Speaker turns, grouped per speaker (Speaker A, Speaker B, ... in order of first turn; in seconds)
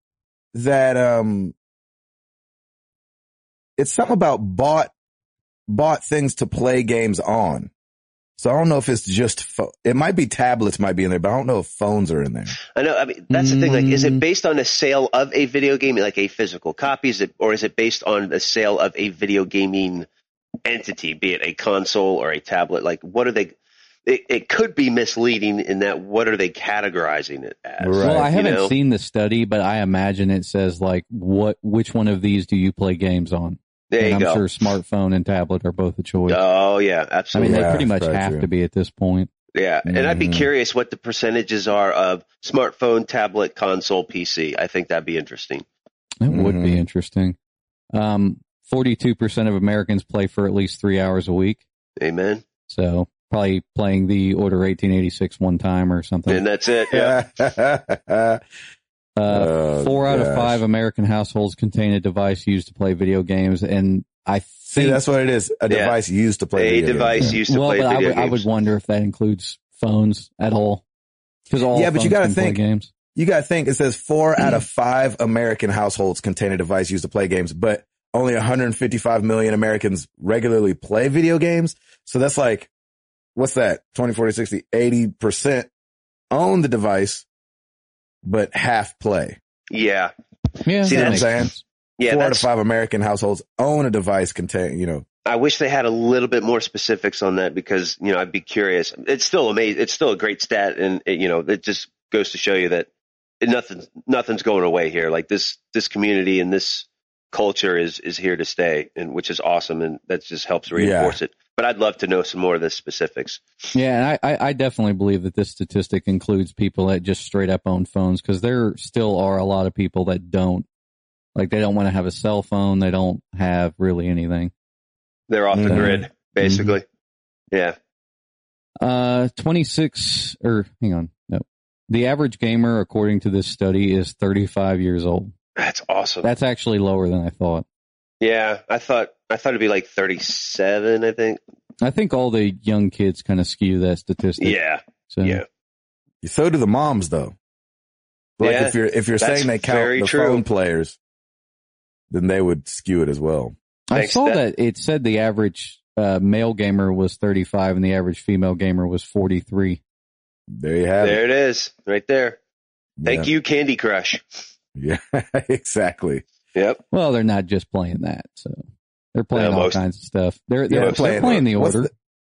Speaker A: 0.5-1.5, 3.8-4.9, 5.7-7.7, 8.4-12.6, 27.8-28.3, 37.4-38.5, 39.9-40.5, 46.3-46.8, 56.9-58.4, 59.3-60.6, 64.7-67.3, 71.7-72.6, 73.1-82.7, 83.3-85.7, 86.3-87.2, 88.2-89.4, 90.9-91.5, 92.1-95.0, 110.7-111.2, 125.5-126.0, 146.2-147.3, 148.4-151.0, 152.1-153.5, 160.5-161.2, 163.0-163.3, 164.7-166.2, 170.7-171.9
Speaker B: 12.7-20.1, 20.6-23.5, 24.1-28.7, 33.9-34.4, 36.3-37.8, 39.5-45.6, 52.0-52.4, 56.3-57.2, 65.7-66.0, 66.5-68.4, 89.7-90.1, 90.8-91.3, 92.0-92.5, 95.2-102.9, 103.4-113.4, 125.3-126.8, 135.6-136.3, 138.2-141.4, 144.4-145.4, 148.4-150.4, 153.9-154.4, 161.0-162.4, 163.0-164.2, 166.5-166.8, 169.3-169.8, 170.7-171.4
Speaker C: 13.3-14.2, 28.0-36.4, 37.3-39.3, 46.2-47.4, 47.9-51.6, 52.7-56.4, 59.2-65.0, 67.2-70.8, 71.5-72.9, 90.7-91.6, 113.7-120.7, 121.3-124.5, 125.7-126.8, 128.8-135.3, 136.2-137.6, 141.8-144.6, 145.1-145.4, 153.9-159.8, 166.9-168.6, 169.1-171.9